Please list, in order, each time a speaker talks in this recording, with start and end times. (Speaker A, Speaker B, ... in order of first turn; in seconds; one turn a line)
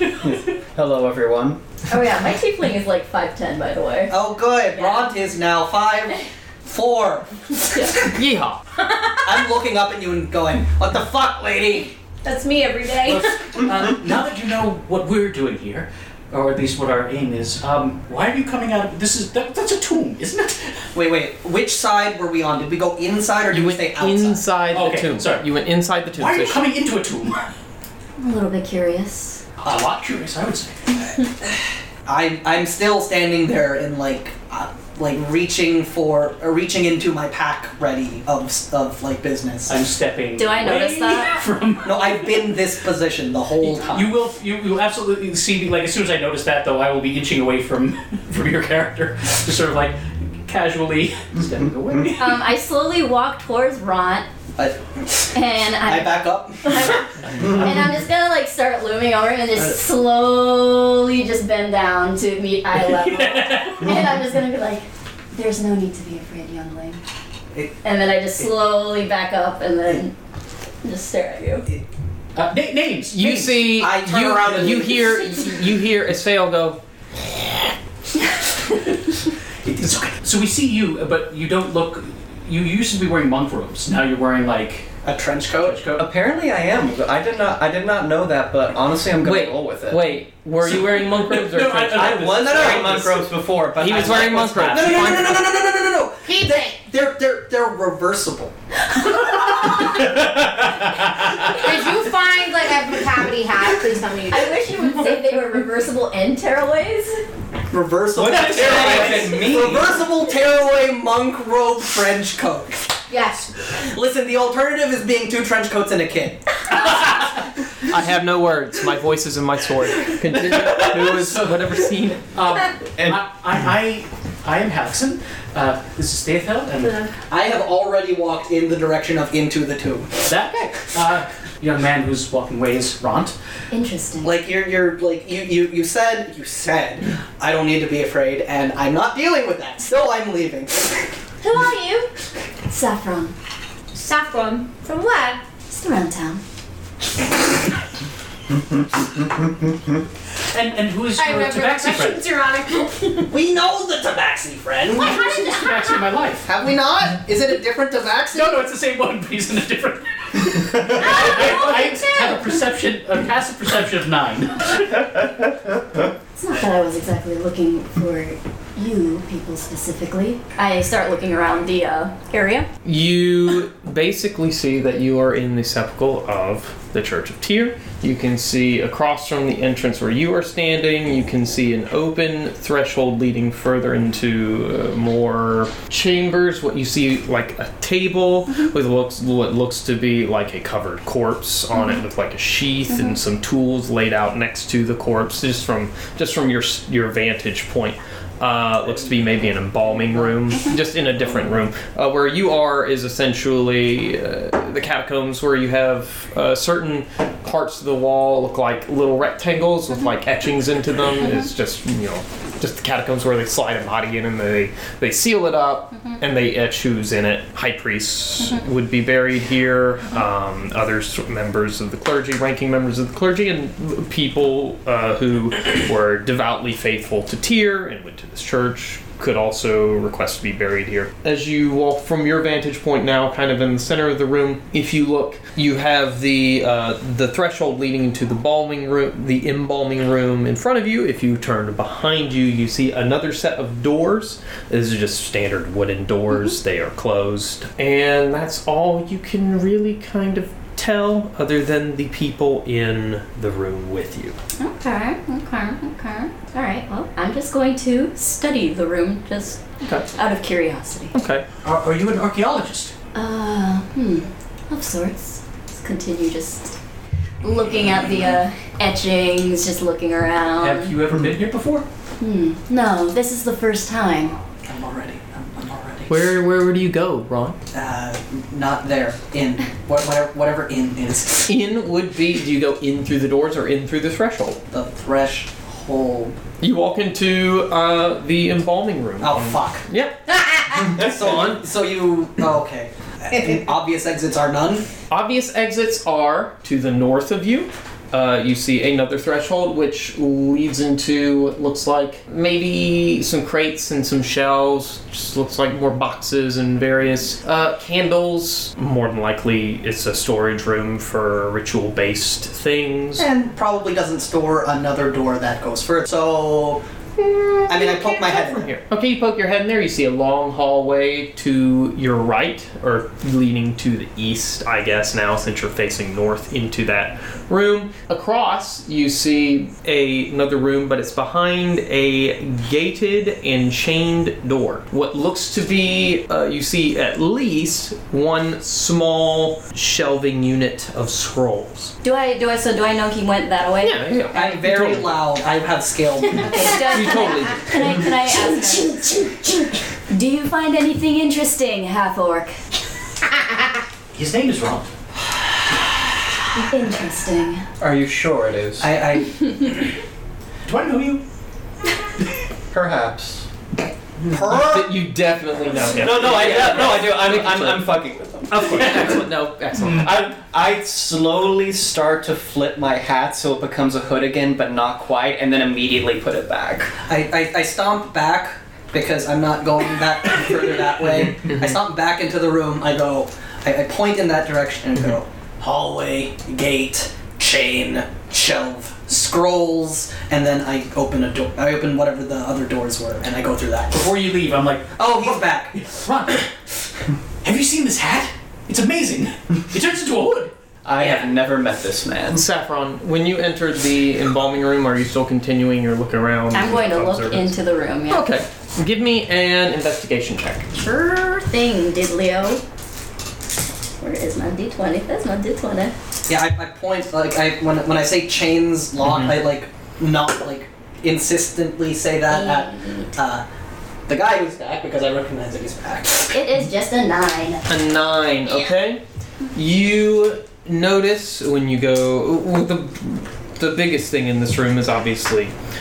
Speaker A: 0.2-1.6
Speaker B: 1.9-4.2
Speaker C: 4.1-8.0
Speaker B: 4.7-5.1
Speaker D: 8.1-8.6
Speaker E: 8.9-9.3
Speaker C: 9.2-11.9
Speaker E: 12.2-13.4
Speaker F: 13.1-20.8
Speaker C: 20.9-24.4
Speaker D: 23.5-26.7
Speaker F: 24.7-25.5
Speaker F: 26.1-27.5
Speaker B: 28.2-29.4
Speaker F: 29.6-31.2
Speaker C: 32.1-39.8
Speaker F: 39.7-42.6
Speaker B: 40.4-41.4
Speaker C: 41.8-44.1
Speaker F: 43.9-52.4
Speaker B: 52.2-54.3
Speaker C: 54.6-57.0
Speaker B: 55.3-67.0
Speaker F: 62.8-63.9
Speaker B: 67.8-70.2
Speaker B: 70.8-71.7
Speaker F: 72.4-73.7
Speaker D: 73.1-76.8
Speaker C: 73.8-75.4
Speaker F: 79.6-85.0
Speaker C: 85.0-85.8
Speaker F: 85.5-86.0
Speaker A: 86.0-90.2
Speaker D: 89.2-92.7
Speaker F: 90.6-93.1
Speaker A: 91.9-95.3
Speaker C: 92.6-93.0
Speaker D: 93.8-95.4
Speaker C: 94.7-98.5
Speaker E: 96.2-96.8
Speaker E: 101.5-104.7
Speaker B: 104.3-107.2
Speaker C: 107.7-113.0
Speaker A: 108.2-110.0
Speaker F: 108.4-109.3
Speaker E: 113.1-113.5
Speaker C: 113.8-116.4
Speaker D: 117.9-122.3
Speaker F: 122.3-127.0
Speaker E: 126.8-127.1
Speaker C: 127.3-130.1
Speaker F: 130.3-133.3
Speaker B: 133.7-134.3
Speaker C: 134.2-141.1
Speaker E: 141.4-142.1
Speaker B: 142.7-143.3
Speaker E: 143.9-145.4
Speaker B: 145.7-146.4
Speaker F: 150.5-152.2
Speaker E: 151.2-153.3
Speaker C: 153.3-155.2
Speaker F: 155.0-156.5
Speaker E: 155.0-156.0
Speaker C: 156.4-158.6
Speaker F: 158.3-165.1
Speaker E: 160.9-162.5
Speaker B: 166.4-172.7
Speaker D: 172.8-254.4
Speaker B: 254.6-259.6
Speaker D: 259.8-260.1
Speaker B: 260.1-261.1
Speaker D: 261.1-261.4
Speaker F: 261.6-262.9
Speaker B: 263.1-266.8
Speaker B: 267.4-270.9
Speaker F: 270.6-271.9
Speaker B: 272.2-274.4
Speaker C: 274.7-276.3
Speaker D: 276.1-277.6
Speaker C: 277.7-281.5
Speaker D: 281.5-284.6
Speaker C: 284.7-286.4
Speaker D: 286.6-290.2
Speaker C: 289.2-289.8
Speaker C: 290.9-294.9
Speaker D: 291.0-291.6
Speaker D: 295.1-313.3
Speaker C: 313.2-316.8
Speaker D: 317.2-341.9
Speaker C: 317.7-318.7
Speaker B: 342.0-344.2
Speaker D: 343.8-345.2
Speaker C: 344.3-346.8
Speaker B: 346.4-352.6
Speaker D: 346.9-348.1
Speaker F: 354.1-354.9
Speaker B: 356.6-357.6
Speaker A: 357.8-359.0
Speaker C: 358.8-359.7
Speaker F: 360.6-361.2
Speaker A: 362.7-363.5
Speaker A: 364.3-364.9
Speaker D: 364.3-370.3
Speaker A: 365.9-369.0
Speaker A: 370.0-376.9
Speaker C: 377.1-394.0
Speaker F: 393.9-396.5
Speaker C: 395.0-395.8
Speaker F: 397.4-400.5
Speaker A: 400.9-402.4
Speaker D: 402.3-407.5
Speaker B: 406.5-408.3
Speaker D: 408.1-410.7
Speaker B: 410.7-412.6
Speaker B: 414.0-415.9
Speaker C: 416.3-423.4
Speaker D: 419.1-419.3
Speaker C: 424.1-426.4
Speaker B: 426.3-427.6
Speaker D: 427.7-429.0
Speaker D: 429.5-435.5